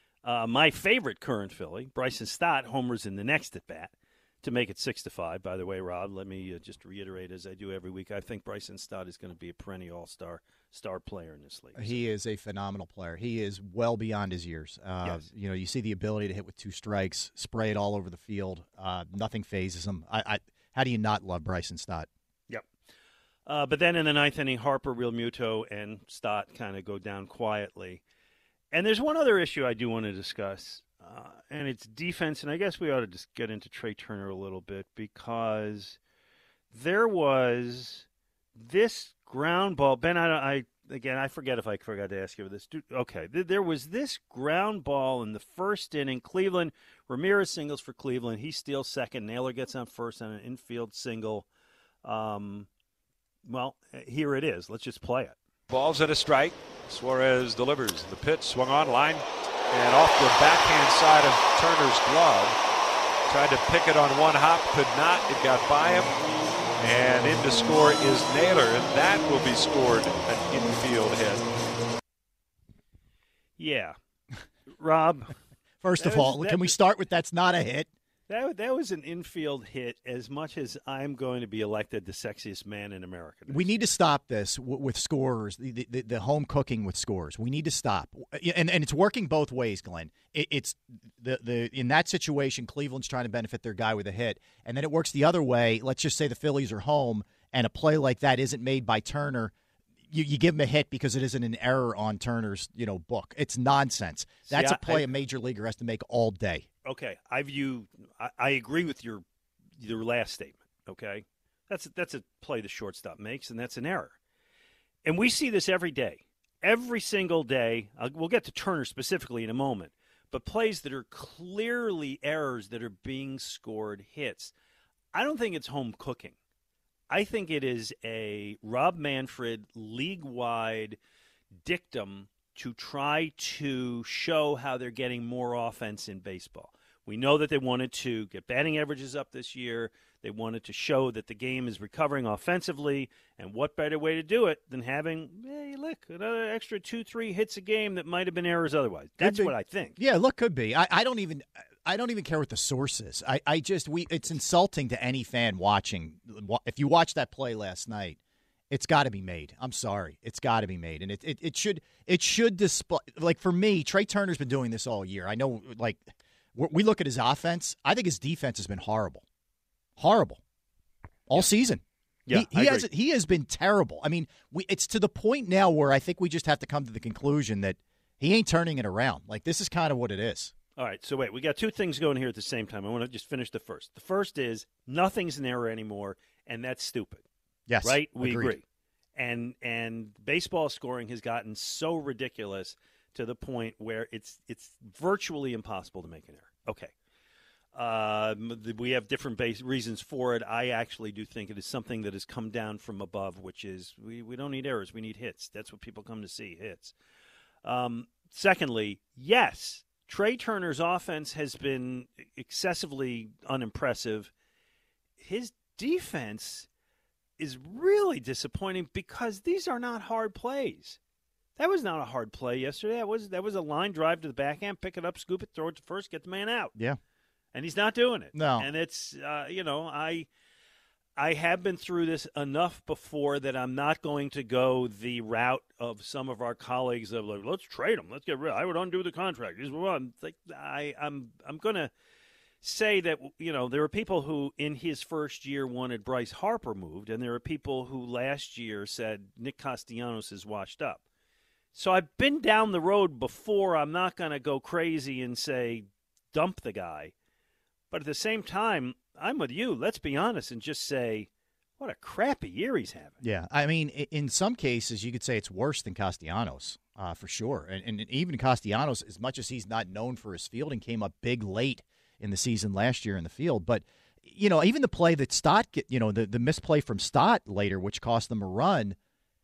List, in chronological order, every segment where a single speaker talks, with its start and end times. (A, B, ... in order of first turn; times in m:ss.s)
0:00.2-0:12.0 A
0:11.8-0:22.1 B
0:23.4-0:28.0 A
0:28.7-0:36.0 A
0:36.7-0:51.5 A
0:52.0-0:52.7 A
0:53.4-0:55.4 A
0:55.7-1:02.6 C
1:03.3-1:11.5 C
1:13.6-1:14.0 A
1:14.7-1:15.3 A
1:15.8-1:17.9 B
1:16.0-1:16.7 A
1:18.3-1:23.8 A
1:23.5-1:39.5 B
1:40.1-1:46.7 B
1:44.4-1:45.1 A
1:46.8-1:49.2 A
1:49.8-1:54.2 A
1:55.0-2:04.5 A
2:05.1-2:06.4 A
2:07.1-2:11.0 A
2:11.6-2:30.0 A
2:29.2-2:38.2 B
2:38.7-2:49.2 B
2:50.0-2:50.4 B
2:51.3-3:00.5 B
2:52.2-2:52.9 A
3:00.8-3:07.2 A
3:07.7-3:08.6 B
3:07.8-3:08.6 A
3:09.2-3:16.9 A
3:17.7-3:26.9 A
3:27.6-3:34.3 A
3:35.2-3:36.7 A
3:37.4-3:41.0 A
3:41.6-3:46.7 A
3:47.5-3:50.3 A
3:48.3-3:48.7 B
3:51.2-4:01.9 A
4:02.6-4:11.0 A
4:11.7-4:17.1 A
4:17.9-4:23.2 A
4:23.2-4:39.0 B